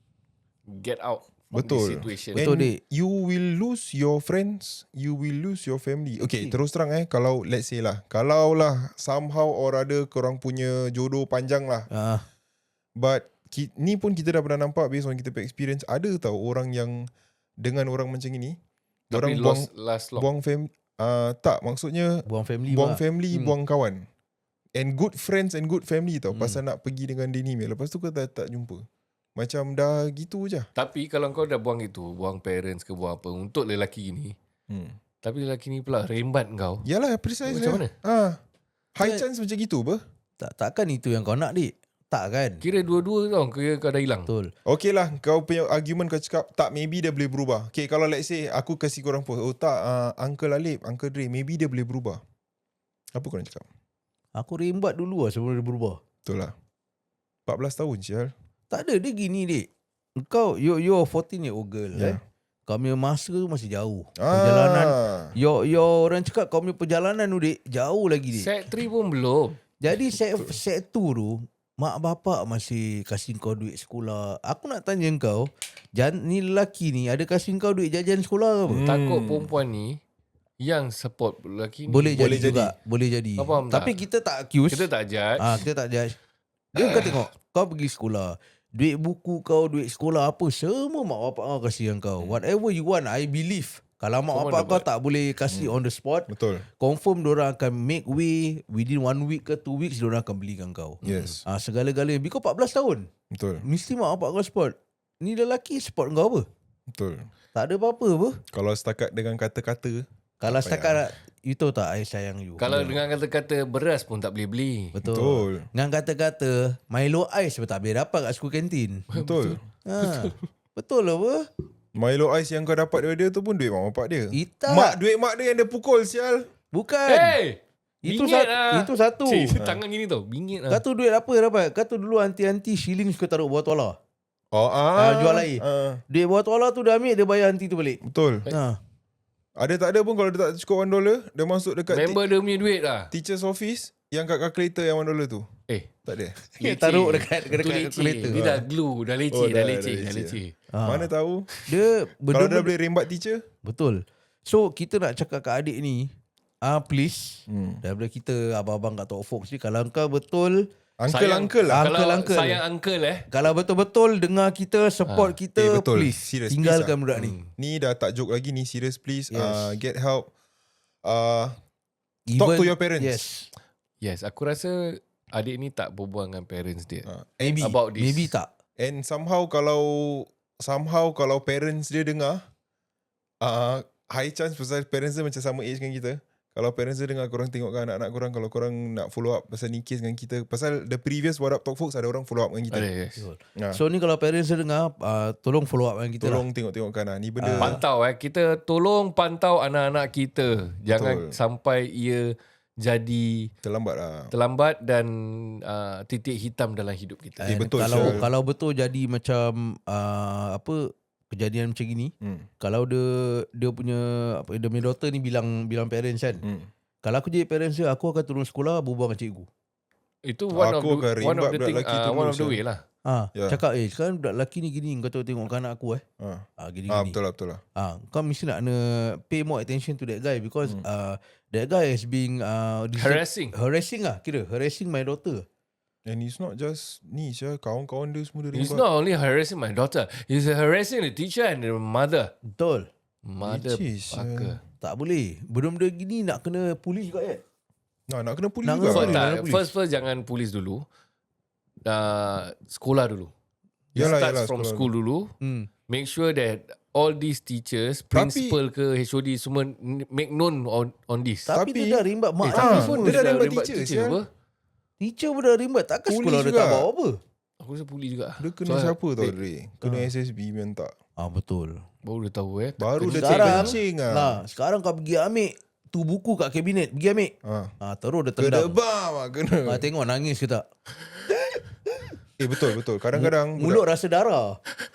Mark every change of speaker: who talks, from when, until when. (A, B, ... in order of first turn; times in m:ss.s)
0:00.7-0:02.5 A
0:01.5-0:11.9 B
0:02.3-0:02.8 C
0:06.2-0:06.6 C
0:11.9-0:12.2 C
0:13.0-0:17.1 B
0:17.6-0:18.6 B
0:19.1-0:20.3 A
0:19.1-0:24.1 B
0:22.2-0:23.5 C
0:24.7-0:30.7 B
0:26.3-0:26.6 A
0:30.8-0:34.4 A
0:34.7-0:35.0 B
0:35.2-0:36.8 A
0:36.8-0:38.4 B
0:37.5-0:37.9 A
0:38.9-0:40.0 B
0:40.4-0:42.6 C
0:42.6-0:44.3 A
0:44.3-0:44.5 C
0:44.6-0:52.2 B
0:53.1-0:53.6 B
0:54.4-0:56.0 C
0:56.2-0:56.5 B
0:57.4-0:58.3 B
0:58.7-1:08.6 C
1:01.9-1:02.2 B
1:04.2-1:05.3 B
1:08.4-1:09.6 A
1:09.8-1:18.8 C
1:18.7-1:19.5 B
1:18.9-1:20.0 A
1:20.6-1:22.6 A
1:21.9-1:26.2 C
1:22.1-1:22.7 B
1:23.4-1:24.0 A
1:24.7-1:25.6 A
1:26.7-1:43.1 C
1:26.8-1:27.2 A
1:34.3-1:34.8 A
1:35.5-1:36.7 B
1:41.0-1:41.4 A
1:41.0-1:41.4 B
1:43.3-1:43.6 B
1:43.6-1:46.5 C
1:46.9-1:47.3 B
1:47.5-1:48.4 C
1:48.5-1:51.1 B
1:50.4-1:53.0 C
1:52.6-1:54.9 A
1:54.9-1:59.0 C
1:55.0-1:55.7 B
1:59.1-2:00.3 A
1:59.1-1:59.6 B
1:59.8-2:01.5 C
2:01.9-2:06.5 B
2:04.3-2:05.0 C
2:06.7-2:07.4 C
2:07.1-2:10.8 A
2:08.0-2:09.6 C
2:09.6-2:09.8 B
2:10.7-2:14.0 C
2:14.5-2:16.0 B
2:15.0-2:18.8 C
2:18.0-2:18.5 B
2:19.6-2:22.2 B
2:21.9-2:23.1 A
2:23.1-2:25.5 B
2:26.0-2:26.4 B
2:26.4-2:28.4 C
2:26.6-2:30.5 A
2:28.3-2:28.6 B
2:29.3-2:31.5 B
2:30.7-2:31.1 C
2:31.6-2:32.7 C
2:32.3-2:33.4 B
2:33.6-2:36.1 C
2:36.6-2:40.7 C
2:37.5-2:37.8 B
2:41.0-2:41.8 B
2:41.1-2:43.3 A
2:41.7-2:42.6 C
2:43.3-2:47.4 C
2:45.1-2:45.3 A
2:45.6-2:47.0 B
2:47.1-2:47.5 A
2:47.5-2:50.3 B
2:49.3-2:49.8 C
2:51.0-2:51.6 B
2:52.3-2:53.5 C
2:52.4-2:53.2 B
2:54.0-2:57.1 A
2:57.0-2:57.7 B
2:57.4-2:58.5 C
2:57.6-2:58.3 A
2:58.8-3:02.4 B
3:03.4-3:12.9 B
3:12.7-3:13.2 A
3:13.2-3:16.4 C
3:16.2-3:17.8 B
3:17.4-3:17.8 C
3:17.6-3:23.5 A
3:20.9-3:21.4 B
3:23.6-3:24.3 B
3:24.3-3:28.2 A
3:27.4-3:36.4 C
3:27.5-3:28.3 B
3:32.2-3:32.5 B
3:37.0-3:39.5 C
3:40.2-3:42.8 A
3:40.5-3:42.6 B
3:43.0-3:46.0 C
3:43.3-3:43.6 B
3:46.2-3:47.6 B
3:46.6-3:47.2 C
3:47.8-3:55.4 C
3:52.9-3:53.5 A
3:56.0-3:58.8 B
3:58.5-4:02.3 A
4:02.5-4:02.9 C
4:03.2-4:04.6 A
4:03.4-4:04.6 B
4:04.8-4:07.4 C
4:08.1-4:09.2 B
4:08.6-4:09.7 C
4:08.9-4:10.8 A
4:11.8-4:13.3 A
4:13.9-4:14.9 B
4:14.0-4:15.3 A
4:15.4-4:15.7 C
4:15.9-4:21.5 A
4:18.1-4:18.6 B
4:21.5-4:23.3 C
4:21.5-4:24.2 B
4:22.4-4:24.3 A
4:25.0-4:27.2 C
4:26.1-4:26.9 B
4:27.6-4:29.4 A
4:28.4-4:30.9 B
4:29.8-4:30.1 C
4:31.2-4:31.8 C
4:32.0-4:33.7 A
4:32.8-4:34.4 B
4:33.0-4:38.8 C
4:37.4-4:37.7 B
4:38.4-4:39.9 B
4:39.6-4:40.6 C
4:41.3-4:42.2 C
4:42.4-4:43.8 B
4:43.1-4:44.6 C